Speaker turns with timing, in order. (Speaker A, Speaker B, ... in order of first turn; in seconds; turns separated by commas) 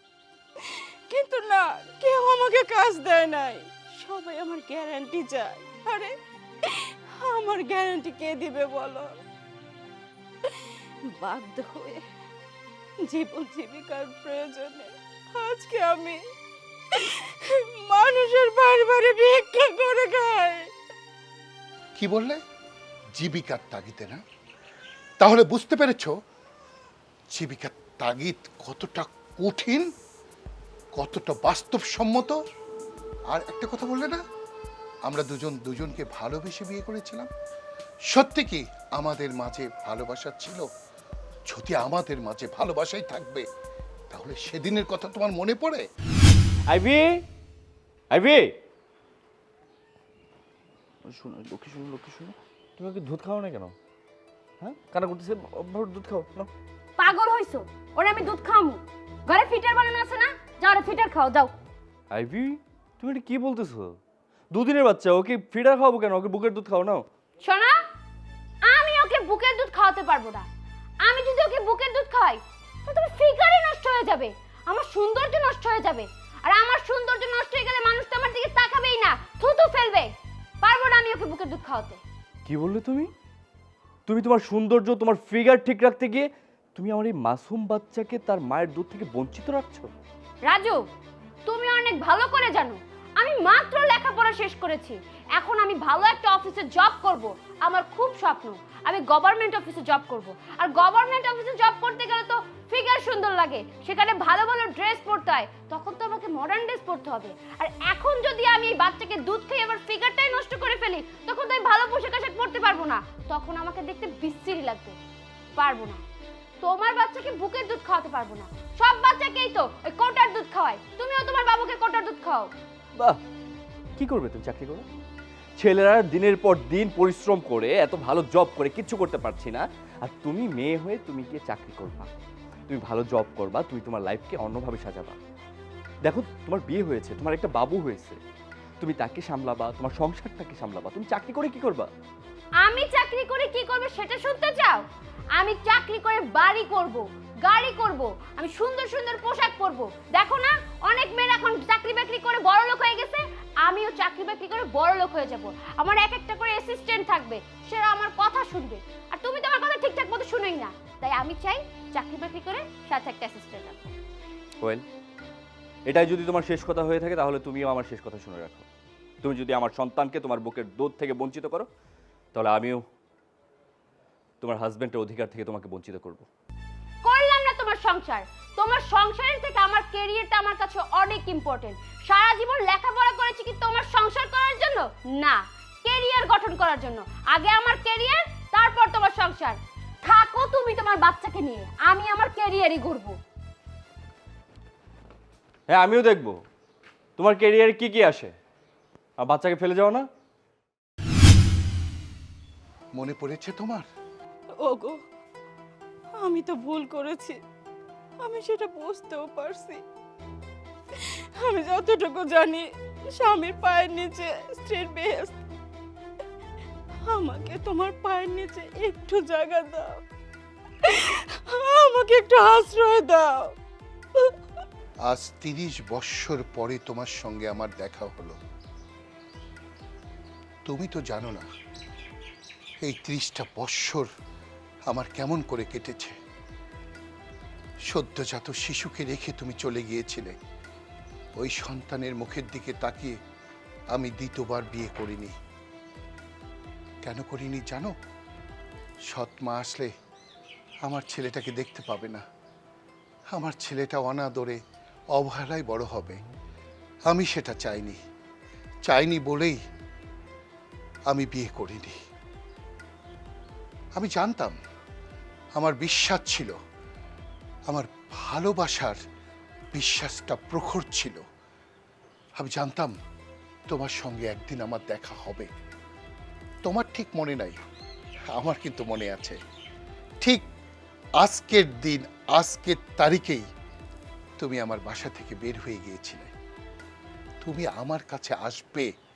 Speaker A: 1.1-6.1, Speaker A: 6.7-9.0, Speaker A: 11.2-12.0, Speaker A: 13.1-16.2, Speaker A: 17.9-20.6, Speaker B: 21.9-22.4, Speaker B: 23.1-24.2, Speaker B: 25.2-26.1, Speaker B: 27.3-29.9, Speaker B: 30.9-32.4, Speaker B: 33.3-34.2, Speaker B: 35.0-37.3, Speaker B: 38.1-40.7, Speaker B: 41.5-43.5, Speaker B: 44.1-45.8, Speaker C: 46.7-47.2, Speaker C: 48.1-48.5, Speaker C: 51.1-53.7, Speaker C: 54.6-56.5, Speaker D: 57.0-61.5, Speaker C: 62.1-64.0, Speaker C: 64.5-67.0, Speaker D: 67.4-67.7, Speaker D: 68.6-70.5, Speaker D: 71.0-80.1, Speaker D: 80.6-82.0, Speaker C: 82.5-83.1, Speaker C: 84.1-89.9, Speaker D: 90.5-90.8, Speaker D: 91.5-115.0, Speaker D: 115.5-116.0, Speaker D: 116.6-122.5, Speaker C: 124.0-124.8, Speaker C: 125.6-132.1, Speaker C: 132.7-135.2, Speaker C: 136.0-138.2, Speaker C: 138.8-141.9, Speaker D: 142.6-144.8, Speaker D: 145.4-163.8, Speaker C: 165.9-168.7, Speaker C: 169.2-171.7, Speaker C: 172.3-172.8, Speaker C: 174.4-176.3, Speaker D: 177.0-193.2, Speaker C: 195.7-196.4, Speaker C: 197.2-198.3, Speaker C: 199.2-200.1, Speaker B: 202.9-203.9, Speaker A: 204.7-204.9, Speaker A: 206.2-207.3, Speaker A: 208.2-209.8, Speaker A: 211.4-212.6, Speaker A: 213.2-215.4, Speaker A: 217.1-219.9, Speaker A: 221.5-223.4, Speaker B: 225.1-228.4, Speaker B: 230.6-231.5, Speaker B: 232.8-234.1, Speaker B: 234.9-236.1, Speaker B: 237.9-240.4, Speaker B: 241.3-243.2, Speaker B: 243.9-245.3, Speaker B: 247.0-247.9, Speaker B: 249.1-249.9, Speaker B: 250.8-252.2, Speaker B: 253.3-254.6, Speaker B: 255.1-256.2, Speaker B: 257.1-258.0, Speaker B: 258.8-259.6, Speaker B: 261.1-262.0, Speaker B: 263.9-264.5, Speaker B: 265.5-266.5, Speaker B: 267.7-269.0, Speaker B: 269.7-271.2, Speaker B: 272.4-272.9, Speaker B: 273.7-275.5, Speaker B: 276.6-277.6, Speaker B: 278.3-279.4, Speaker B: 281.2-283.4, Speaker B: 284.4-286.3, Speaker B: 287.4-288.9